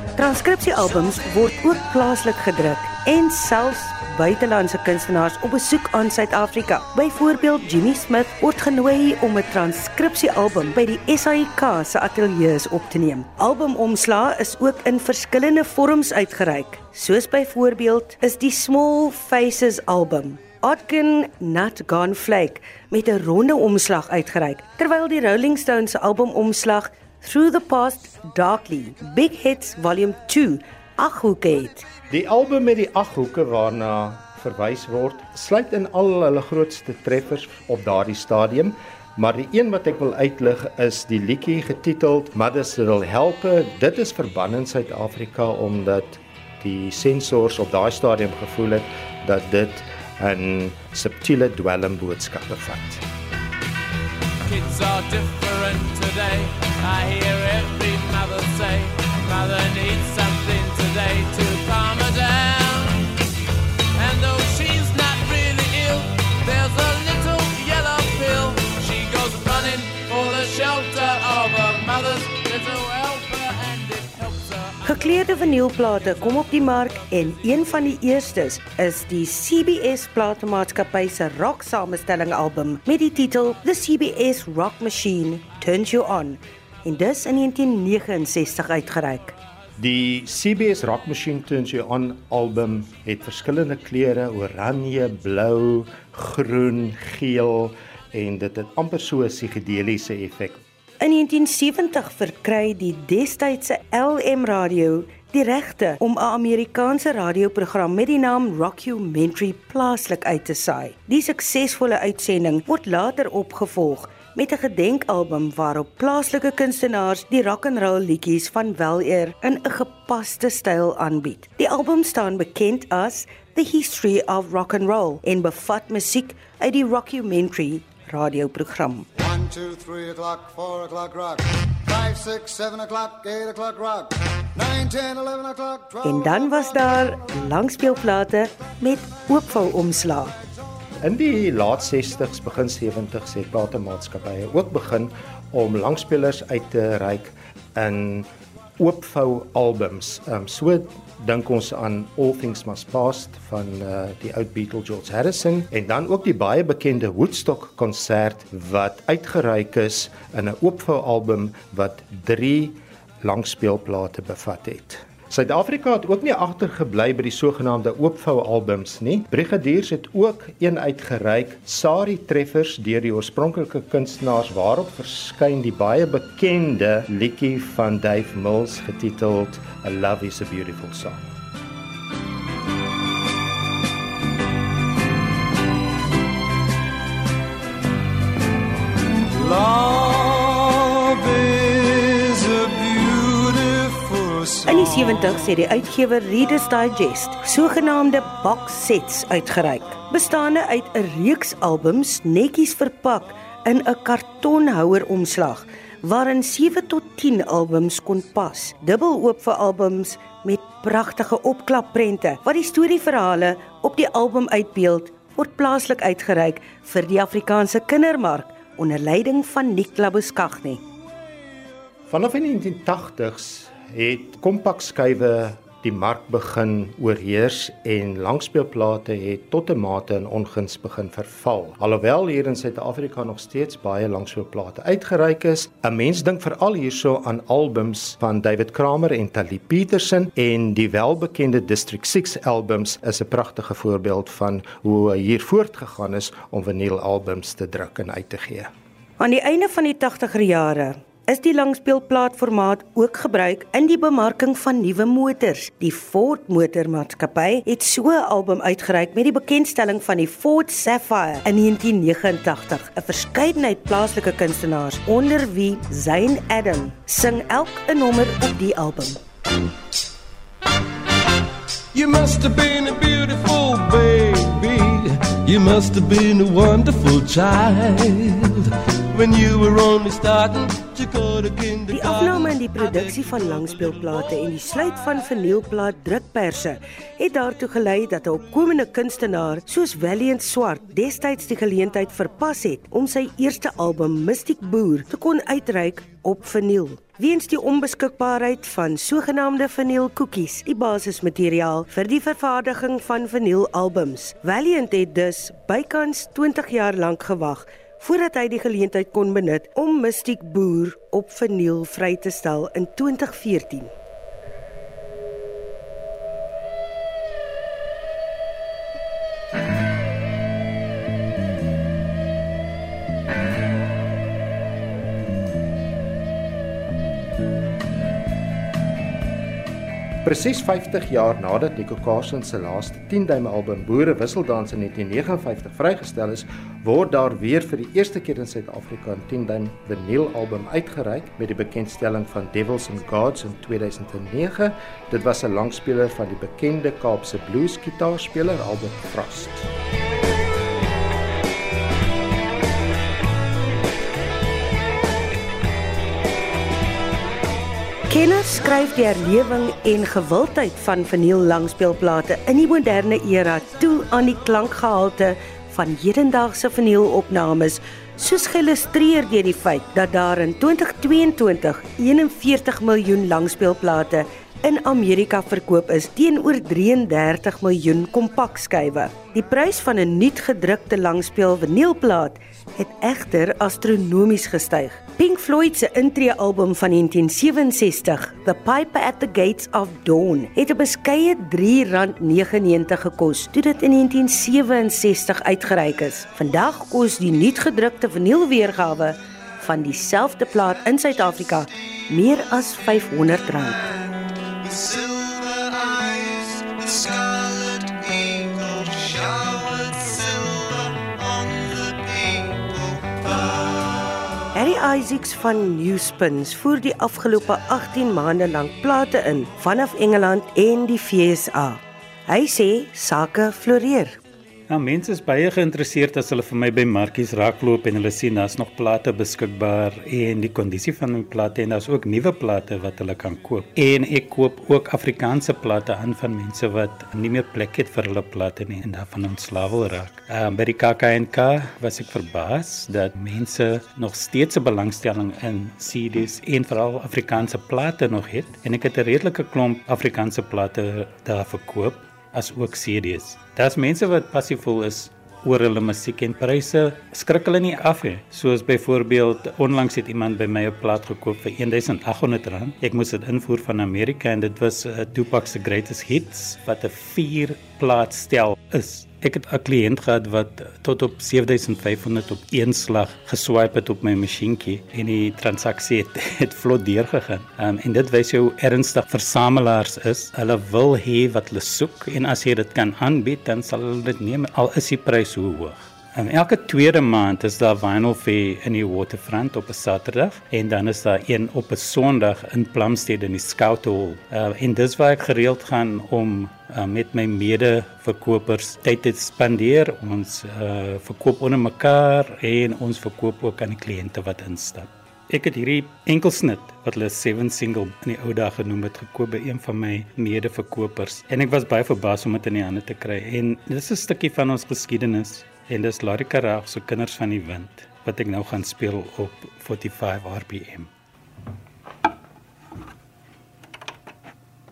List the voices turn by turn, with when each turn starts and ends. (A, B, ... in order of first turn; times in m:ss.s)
0:00.2-0:31.8 A
0:32.1-0:53.0 B
0:54.4-1:03.0 C
1:04.0-1:16.8 C
1:14.8-1:29.4 A
1:29.8-1:40.6 B
1:41.0-2:09.1 A
2:09.2-2:16.2 D
2:16.0-2:20.3 A
2:21.0-3:01.3 B
3:09.4-3:14.6 E
3:14.6-3:40.8 A
3:42.1-4:08.7 B
4:09.2-4:29.2 A
4:31.9-4:43.1 E
4:41.9-5:13.9 A
5:30.2-5:49.7 B
5:58.1-6:43.8 A
6:44.6-6:53.6 D
6:54.5-7:04.2 A
7:04.7-8:40.9 F